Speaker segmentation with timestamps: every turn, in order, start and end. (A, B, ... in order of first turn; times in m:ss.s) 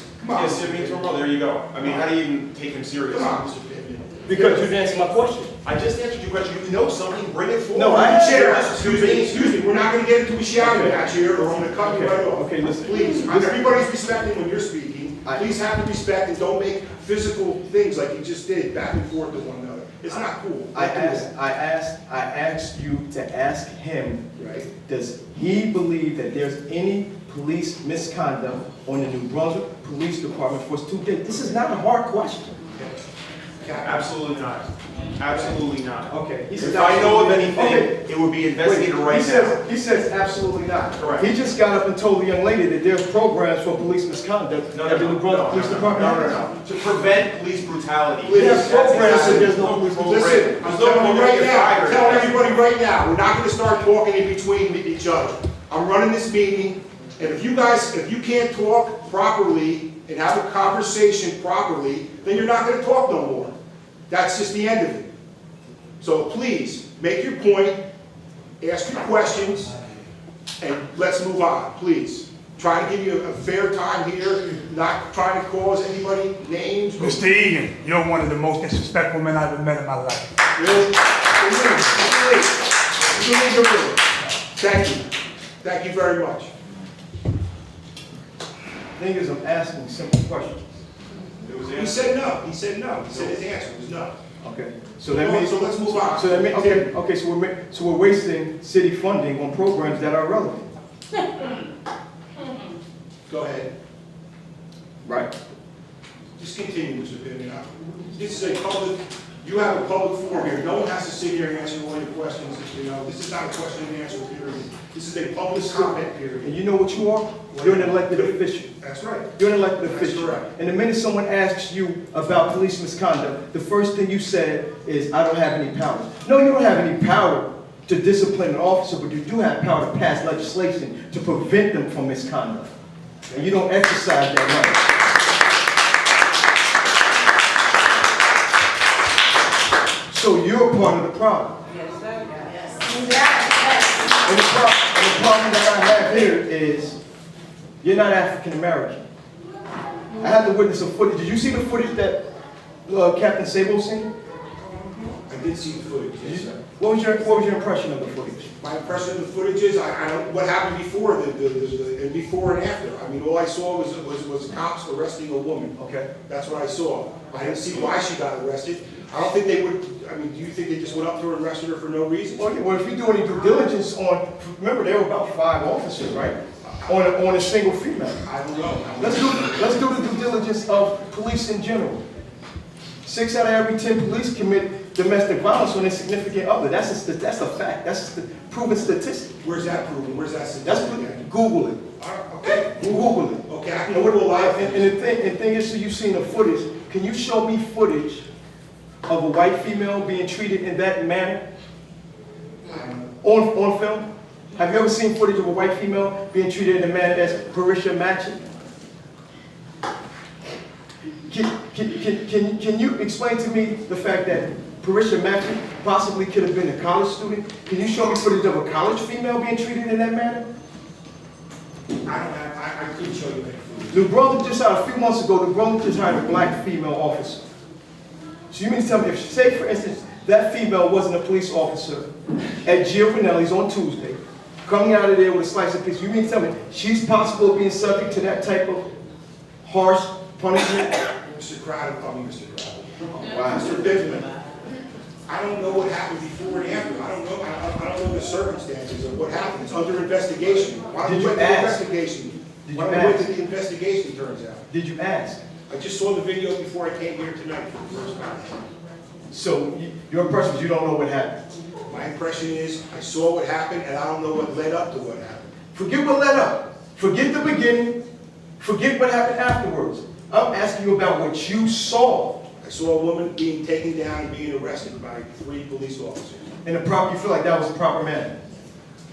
0:00.2-0:01.0 A
0:00.3-0:03.5 B
0:03.1-0:04.6 A
0:04.2-0:05.6 C
0:04.4-0:04.7 B
0:05.6-0:09.5 B
0:07.7-0:08.6 C
0:07.8-0:21.3 A
0:10.6-0:11.0 C
0:11.8-0:13.8 C
0:20.7-0:32.6 C
0:24.4-0:24.7 A
0:33.6-0:34.1 A
0:33.8-0:39.6 B
0:36.1-0:38.0 C
0:38.6-0:46.5 C
0:41.0-0:41.3 B
0:44.7-0:52.6 B
0:48.2-1:03.5 A
0:48.3-0:50.1 C
1:04.1-1:05.1 A
1:06.0-1:07.8 A
1:08.6-1:09.7 A
1:10.6-1:17.2 A
1:17.0-1:20.3 D
1:20.6-1:25.0 A
1:25.6-1:26.5 A
1:29.0-1:30.6 C
1:31.4-1:32.1 B
1:31.7-1:34.1 A
1:33.1-1:33.4 B
1:34.4-1:40.7 C
1:35.1-1:36.9 A
1:43.3-1:43.7 A
1:45.0-1:45.3 C
1:46.4-1:56.5 A
1:56.4-1:58.7 C
1:57.5-2:00.5 A
1:59.4-2:12.7 C
2:13.3-2:14.9 C
2:20.1-2:21.6 C
2:24.1-2:27.0 C
2:27.8-2:29.0 C
2:30.1-2:32.2 C
2:32.8-2:34.1 C
2:35.2-2:36.6 A
2:36.2-2:38.5 C
2:38.6-2:45.7 A
2:45.8-2:46.1 C
2:46.2-2:52.5 A
2:52.4-2:58.2 C
2:58.2-2:59.8 A
2:59.0-3:02.0 C
3:03.0-3:09.4 C
3:09.4-3:11.2 A
3:10.6-3:11.8 C
3:12.0-3:14.9 A
3:12.7-3:18.2 C
3:19.0-3:21.4 C
3:22.7-3:23.0 A
3:23.2-3:28.4 C
3:31.3-3:40.4 C
3:42.0-3:44.0 A
3:43.9-3:47.5 C
3:48.5-3:52.1 C
3:52.6-3:58.8 C
3:59.6-4:01.0 C
4:01.2-4:04.3 A
4:03.1-4:03.7 C
4:05.3-4:14.7 A
4:11.0-4:11.8 C
4:12.6-4:13.3 C
4:14.7-4:15.4 C
4:15.7-4:18.6 A
4:19.3-4:21.4 C
4:21.9-4:25.5 A
4:25.7-4:28.0 C
4:28.6-4:32.4 C
4:32.6-4:36.4 A
4:36.6-4:38.3 C